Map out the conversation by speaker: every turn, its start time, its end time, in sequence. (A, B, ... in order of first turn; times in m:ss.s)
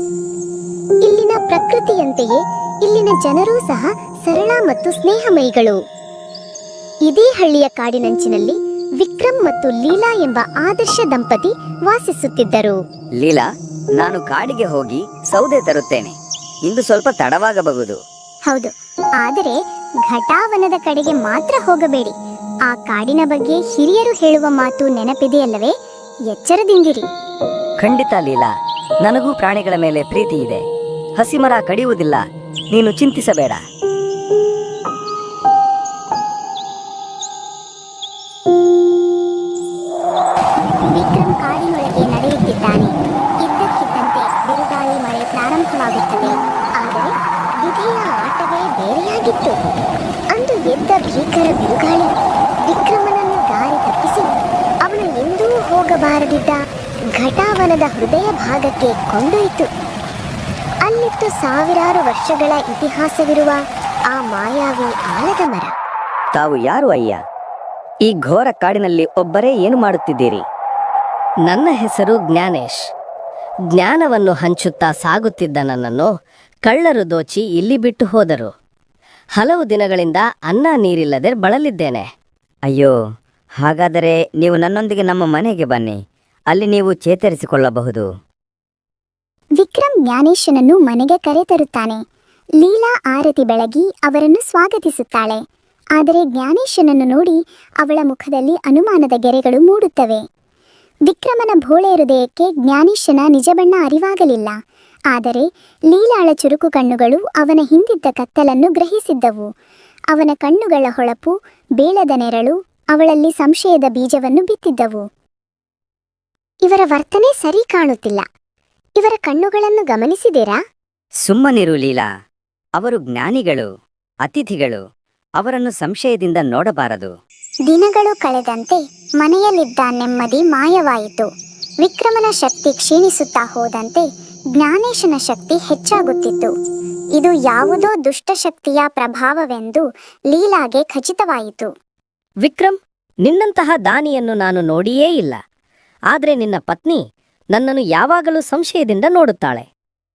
0:01.0-0:05.8 A
0:07.1-0:12.8 A
0:13.2-0:18.0 B
0:18.5-0:22.1 A
0:22.7-0:25.7 A
0:26.3-0:27.1 A
0:27.8-0:28.5 B
0:29.0-0:30.6 B
0:31.2-0:32.2 B
0:32.7-0:33.6 B
0:40.8-0:49.6 A
0:50.3-0:52.1 A
0:52.6-0:54.3 A
0:54.8-0:56.6 A
0:57.2-0:59.7 A
1:00.8-1:03.6 A
1:04.1-1:05.7 A
1:06.3-1:07.2 B
1:08.1-1:10.4 B
1:11.5-1:12.8 C
1:13.7-1:16.1 C
1:16.6-1:18.5 C
1:19.4-1:22.1 C
1:22.7-1:23.0 B
1:23.6-1:26.0 B
1:26.5-1:28.1 B
1:29.6-1:32.0 A
1:32.6-1:35.4 A
1:36.0-1:40.2 A
1:41.1-1:44.6 A
1:45.1-1:49.5 A
1:50.1-1:55.0 A
1:56.6-1:58.2 A
1:59.0-2:00.6 A
2:01.2-2:02.1 B
2:02.8-2:03.7 B
2:04.2-2:04.8 B
2:05.4-2:07.1 B
2:07.7-2:11.3 A
2:11.8-2:16.5 A
2:17.2-2:21.7 A
2:22.4-2:25.4 C
2:26.1-2:29.7 C